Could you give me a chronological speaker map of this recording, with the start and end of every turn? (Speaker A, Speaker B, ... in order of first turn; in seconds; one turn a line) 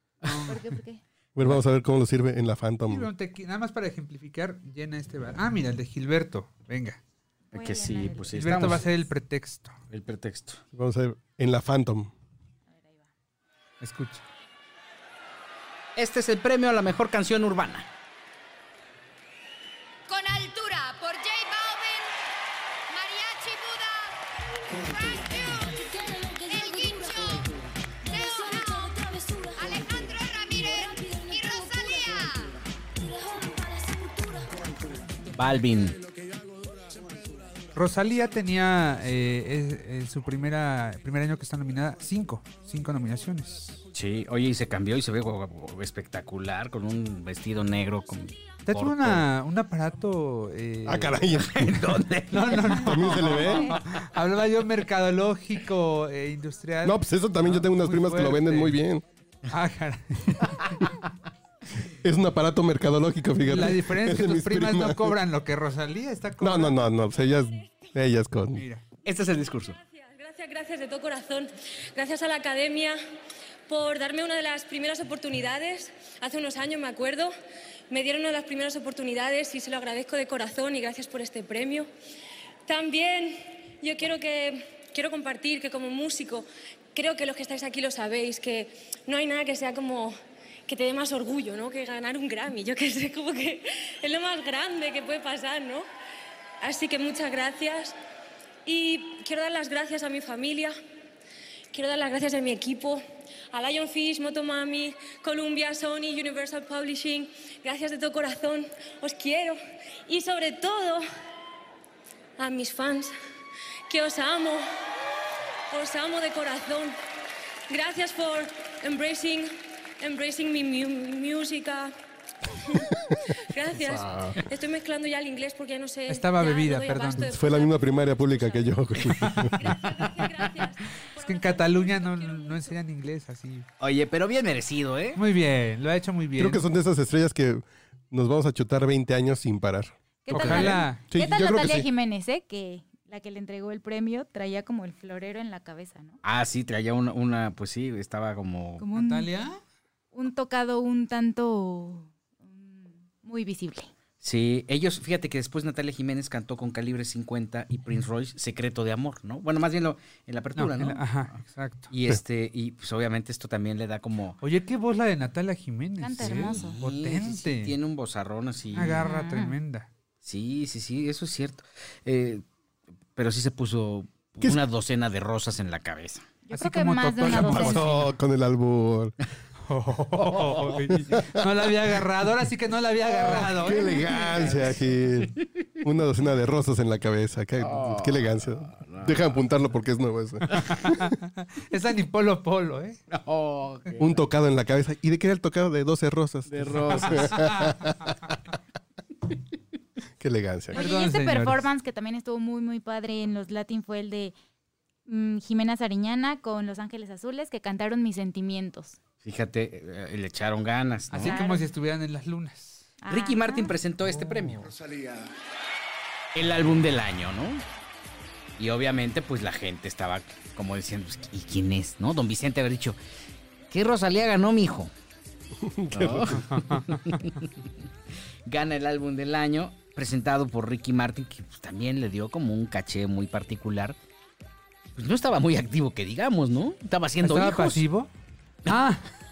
Speaker A: 0.2-0.5
Speaker B: 0.3-0.6
Speaker C: 0.5-1.0
Speaker D: 1.4-3.1
Speaker B: 2.9-7.0
Speaker C: 7.5-8.6
Speaker A: 7.5-8.9
Speaker B: 8.3-9.8
Speaker A: 9.9-10.6
Speaker D: 10.7-12.1
Speaker C: 12.7-13.1
Speaker B: 13.8-14.2
Speaker A: 16.0-17.9
Speaker E: 20.1-22.1
Speaker E: 22.9-24.1
Speaker E: 24.7-27.5
Speaker E: 28.1-32.6
Speaker A: 35.3-36.0
Speaker B: 37.8-43.8
Speaker A: 43.9-49.2
Speaker B: 48.7-51.3
Speaker D: 50.9-52.0
Speaker A: 51.4-53.6
Speaker B: 52.3-58.8
Speaker D: 52.7-53.8
Speaker D: 56.8-59.0
Speaker B: 59.5-60.4
Speaker D: 62.0-65.2
Speaker B: 63.5-66.8
Speaker D: 66.4-68.6
Speaker B: 68.6-68.8
Speaker A: 69.0-69.8
Speaker F: 69.8-73.0
Speaker F: 73.7-77.3
Speaker F: 77.9-81.9
Speaker F: 82.7-90.2
Speaker F: 90.7-95.9
Speaker F: 96.6-98.0
Speaker F: 98.7-100.8
Speaker F: 101.7-111.0
Speaker F: 112.4-113.1
Speaker F: 113.9-114.7
Speaker F: 115.7-117.0
Speaker F: 117.7-121.9
Speaker F: 122.5-122.9
Speaker F: 123.4-128.8
Speaker D: 123.7-124.4
Speaker B: 126.1-127.4
Speaker D: 127.2-129.8
Speaker B: 129.2-129.6
Speaker F: 129.4-132.8
Speaker A: 129.9-130.5
Speaker B: 131.2-133.7
Speaker A: 133.8-135.2
Speaker B: 135.2-136.7
Speaker D: 136.4-141.9
Speaker C: 140.2-146.2
Speaker B: 140.3-141.0
Speaker A: 146.2-148.8
Speaker C: 148.8-149.3
Speaker B: 148.9-149.6
Speaker C: 150.1-153.9
Speaker A: 154.2-161.2
Speaker B: 160.6-161.9
Speaker A: 161.9-164.4
Speaker B: 164.4-167.8
Speaker C: 166.0-166.8
Speaker A: 166.2-169.1
Speaker B: 168.7-169.9
Speaker C: 169.0-169.6
Speaker A: 170.2-172.4
Speaker A: 173.2-176.3
Speaker C: 176.5-177.9
Speaker B: 176.5-178.1
Speaker D: 177.2-179.2
Speaker B: 179.7-183.9
Speaker A: 180.2-181.1
Speaker D: 181.0-181.5
Speaker A: 183.1-185.5
Speaker D: 183.2-190.9
Speaker A: 187.6-189.4
Speaker A: 190.5-190.8
Speaker B: 190.8-193.0
Speaker A: 193.1-194.2
Speaker D: 194.0-198.1
Speaker A: 196.5-197.5
Speaker B: 196.9-197.8
Speaker D: 200.2-200.8
Speaker B: 200.7-201.7
Speaker C: 200.7-204.3
Speaker C: 205.1-209.0
Speaker A: 209.2-211.4
Speaker B: 211.1-213.0
Speaker C: 211.2-211.7
Speaker C: 213.0-213.8
Speaker A: 213.1-214.7
Speaker B: 214.0-214.7
Speaker A: 216.3-217.6
Speaker A: 218.6-223.0
Speaker A: 223.7-224.9
Speaker D: 225.6-226.6
Speaker A: 225.9-227.5
Speaker B: 226.5-226.8
Speaker A: 228.5-234.0
Speaker A: 235.0-237.8
Speaker B: 237.2-238.1
Speaker B: 238.7-239.1